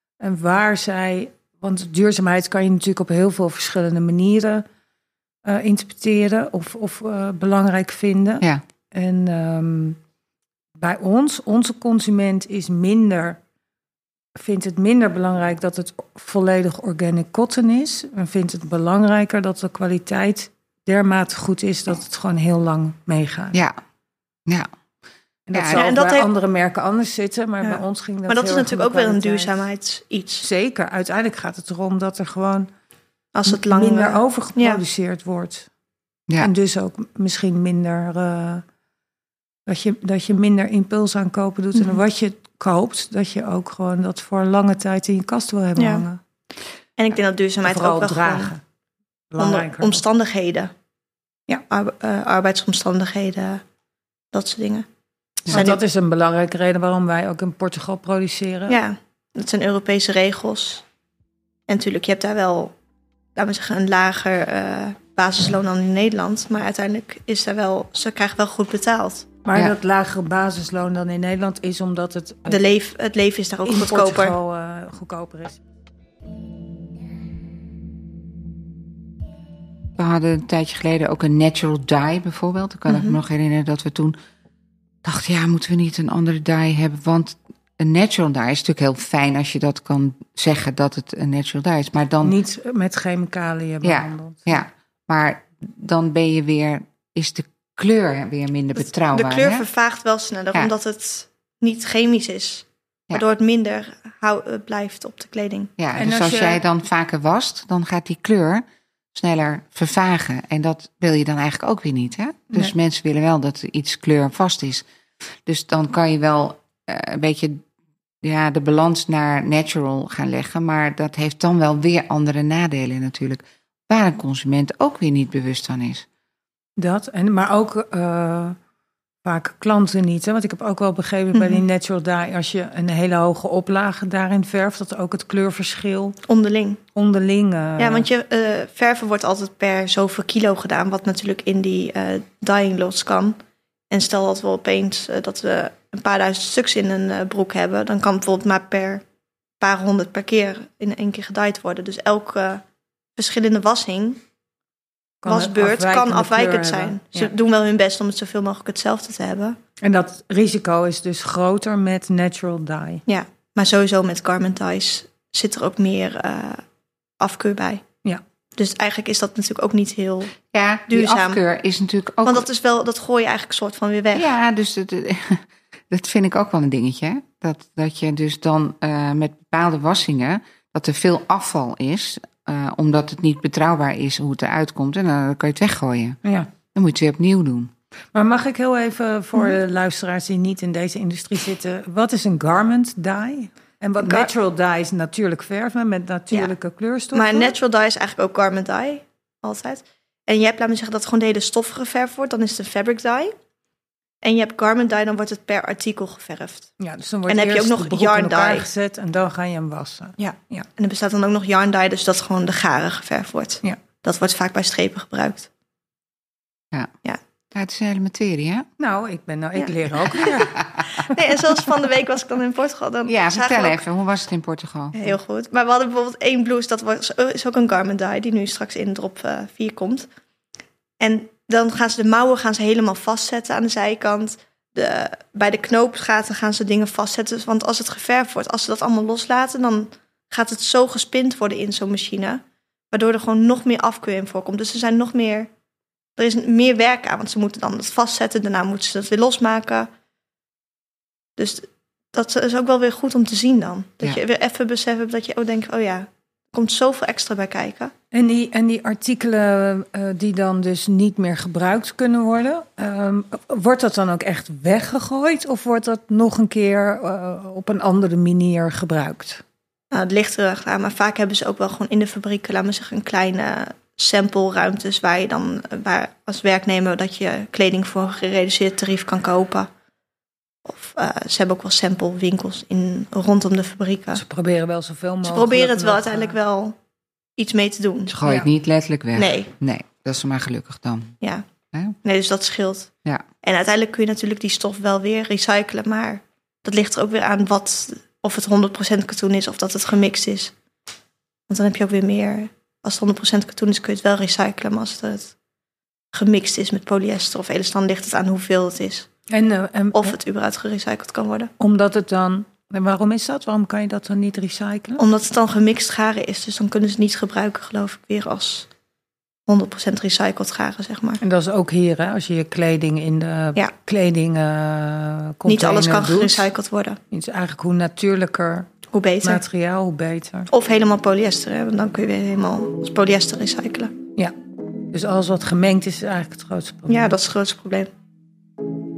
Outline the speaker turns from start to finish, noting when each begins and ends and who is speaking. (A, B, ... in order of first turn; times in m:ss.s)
0:00.2-0:04.6 A
0:05.4-0:10.0 A
0:10.8-0:13.4 A
0:14.4-0:23.6 A
0:25.5-0:29.6 A
0:25.5-0:25.9 B
0:25.7-0:26.3 C
0:27.6-0:30.5 C
0:30.4-0:32.7 A
0:33.3-0:34.8 C
0:33.5-0:35.7 A
0:36.4-0:38.6 A
0:39.6-0:46.2 A
0:41.7-0:42.0 C
0:45.8-0:46.0 C
0:47.0-0:48.5 C
0:47.6-0:48.6 A
0:49.3-0:50.0 A
0:49.4-0:50.7 C
0:51.7-0:53.6 C
0:54.3-0:54.8 C
0:55.5-0:55.8 C
0:55.5-0:58.8 A
0:58.7-1:00.8 C
1:01.7-1:02.7 C
1:03.4-1:09.3 C
1:09.4-1:12.6 A
1:12.5-1:14.4 C
1:13.6-1:15.6 A
1:20.0-1:24.1 B
1:22.9-1:23.2 C
1:25.0-1:32.4 B
1:32.2-1:34.6 A
1:33.8-1:39.7 B
1:38.8-1:45.7 C
1:45.8-1:54.8 B
1:45.9-1:46.6 A
1:55.4-1:57.6 B
1:58.2-2:06.0 B
2:06.8-2:08.6 A
2:09.2-2:16.2 A
2:11.3-2:11.6 C
2:16.2-2:16.8 C
2:16.9-2:18.1 A
2:17.8-2:23.4 C
2:23.9-2:29.0 C
2:29.6-2:32.6 C
2:33.2-2:34.2 C
2:35.2-2:37.3 A
2:35.2-2:39.6 C
2:39.8-2:43.0 A
2:43.1-2:46.6 C
2:47.2-2:47.8 C
2:48.6-2:50.3 C
2:50.5-2:52.5 B
2:50.9-2:51.4 C
2:52.2-2:54.3 C
2:54.1-3:06.2 B
3:06.2-3:06.5 A
3:06.7-3:07.7 B
3:08.1-3:17.5 A
3:14.0-3:14.3 C
3:17.1-3:23.3 C
3:24.2-3:26.7 C
3:26.8-3:30.7 A
3:27.3-3:28.6 C
3:30.2-3:35.5 C
3:37.5-3:38.6 B
3:38.8-3:41.2 A
3:39.6-3:40.2 C
3:40.9-3:43.8 C
3:43.0-3:45.1 B
3:44.9-3:50.1 C
3:51.0-4:05.5 C
4:06.2-4:09.9 C
4:11.4-4:17.9 C
4:18.1-4:29.4 A
4:29.9-4:39.7 C
4:40.6-4:44.2 C
4:44.1-4:46.4 A
4:45.2-4:46.8 C
4:47.4-4:48.2 C
4:48.1-4:51.2 B
4:49.2-4:49.5 C
4:52.0-4:52.9 C
4:53.4-5:00.5 C
5:01.5-5:05.3 C
5:06.1-5:09.1 C
5:09.3-5:10.2 A
5:09.9-5:11.5 C
5:11.6-5:15.0 A
5:15.0-5:18.7 C
5:19.5-5:21.2 C
5:21.2-5:26.5 A
5:25.4-5:27.0 C
5:27.1-5:28.7 A
5:28.9-5:29.4 C
5:29.2-5:30.5 A
5:30.5-5:33.9 C
5:34.9-5:37.2 A
5:36.9-5:37.9 C